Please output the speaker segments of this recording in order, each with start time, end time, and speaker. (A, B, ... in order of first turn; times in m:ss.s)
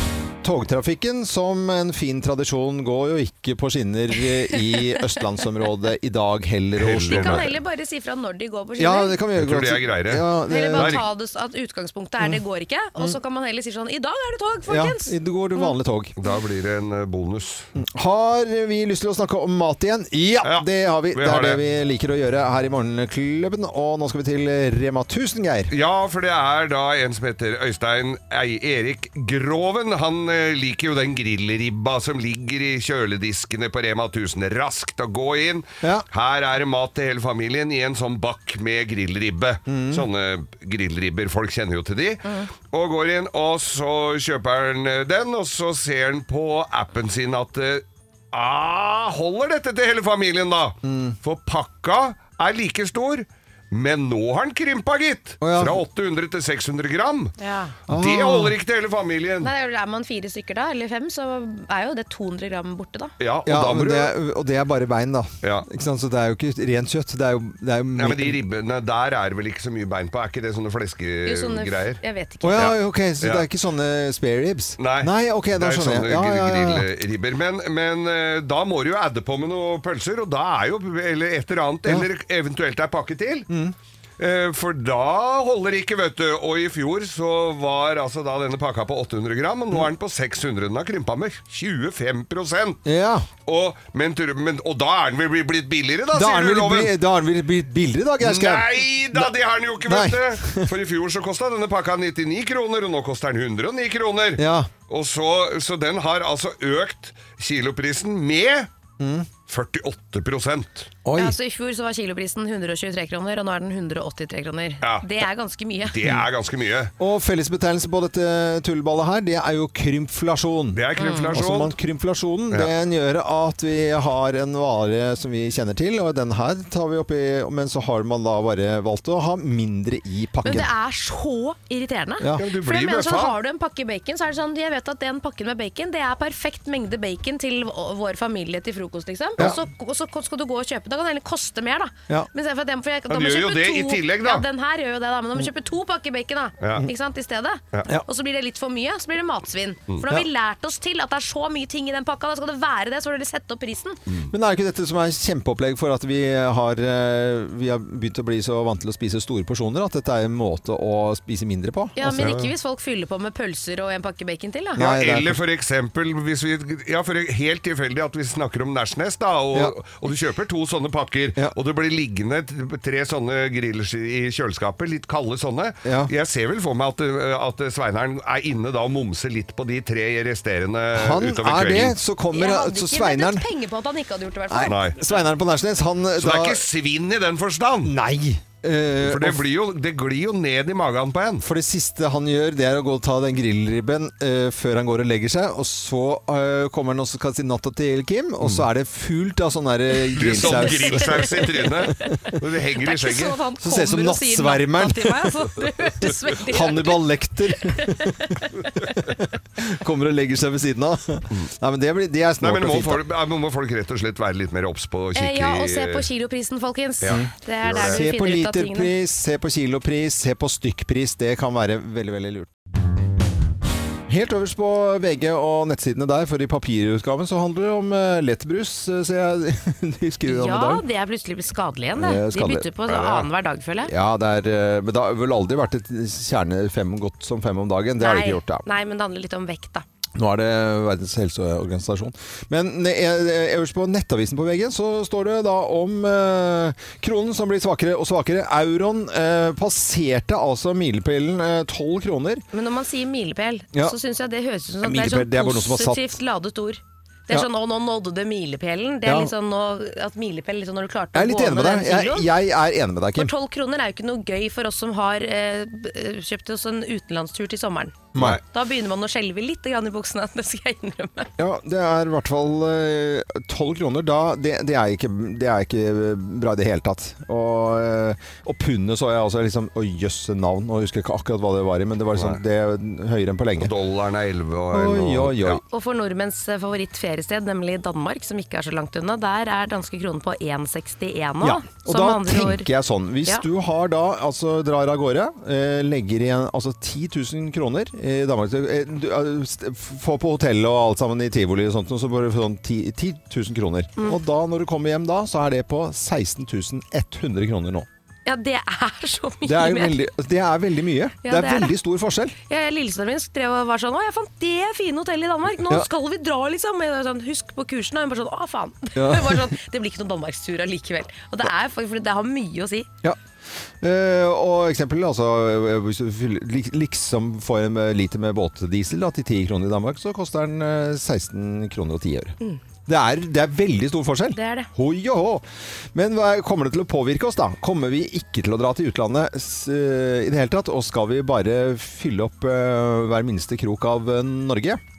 0:00.4-0:07.5 A
0:04.6-0:05.0 B
0:06.8-0:07.5 C
0:07.1-0:09.2 B
0:08.8-0:11.0 A
0:09.4-0:11.0 C
0:10.5-0:15.8 B
0:14.7-0:16.1 A
0:16.2-0:17.7 C
0:17.8-0:25.7 A
0:20.4-0:21.6 C
0:25.7-0:57.3 C
0:39.7-0:40.0 A
0:50.8-0:51.2 A
0:55.4-0:55.8 A
0:57.4-0:57.8 B
0:57.9-0:59.5 C
0:57.9-0:58.6 A
0:59.4-1:03.1 B
1:03.2-1:04.2 C
1:03.4-1:08.4 A
1:05.4-1:05.7 C
1:08.0-1:12.0 C
1:11.2-1:12.6 B
1:12.4-1:16.8 A
1:12.6-1:13.5 C
1:14.8-1:23.5 C
1:23.5-1:23.7 A
1:24.2-1:32.8 C
1:32.8-1:33.3 A
1:33.4-1:36.9 C
1:36.1-1:40.7 A
1:38.2-1:48.7 C
1:44.4-1:44.7 A
1:49.0-1:49.3 A
1:49.5-1:50.9 C
1:51.0-1:51.4 A
1:51.1-1:56.0 B
1:54.8-1:55.1 C
1:55.8-1:56.9 C
1:57.0-2:10.7 A
2:00.7-2:01.7 C
2:01.0-2:01.3 B
2:10.4-2:34.0 B
2:12.2-2:12.4 A
2:12.4-2:13.3 C
2:23.1-2:24.4 C
2:26.6-2:26.9 C
2:34.3-2:42.3 A
2:42.0-2:44.8 B
2:42.1-2:42.5 C
2:44.8-2:45.4 A
2:44.8-3:02.0 C
2:55.8-2:56.1 A
3:00.9-3:03.4 A
3:02.3-3:04.8 B
3:04.5-3:06.6 A
3:04.6-3:05.0 C
3:06.2-3:07.9 C
3:07.8-3:09.4 A
3:09.0-3:11.5 C
3:11.4-3:21.4 A
3:18.4-3:18.7 C
3:20.1-3:23.4 C
3:20.3-3:27.1 B
3:23.6-3:25.4 A
3:26.4-3:28.3 A
3:27.6-3:28.9 B
3:29.0-3:33.0 A
3:32.4-3:36.1 C
3:35.2-3:38.9 B
3:37.0-3:38.0 C
3:37.1-3:42.5 A
3:44.1-3:50.8 A
3:50.2-3:53.9 B
3:52.0-3:52.7 A
3:52.8-3:53.3 C
3:53.8-3:58.6 A
3:58.0-3:59.8 B
4:00.2-4:12.4 A
4:12.5-4:22.3 B
4:14.8-4:16.2 A
4:19.0-4:19.3 A
4:21.1-4:23.3 A
4:23.2-4:31.3 B
4:28.1-4:28.4 A
4:28.1-4:28.4 C
4:31.4-4:43.7 A
4:42.1-4:42.4 C
4:43.6-4:45.6 C
4:44.7-4:45.6 A
4:45.7-4:52.7 B
4:51.4-5:07.9 A
5:08.2-5:10.0 B
5:09.4-5:12.4 A
5:11.2-5:11.7 B
5:12.5-5:22.9 B
5:18.9-5:19.5 A
5:23.8-5:44.8 A
5:34.3-5:34.7 B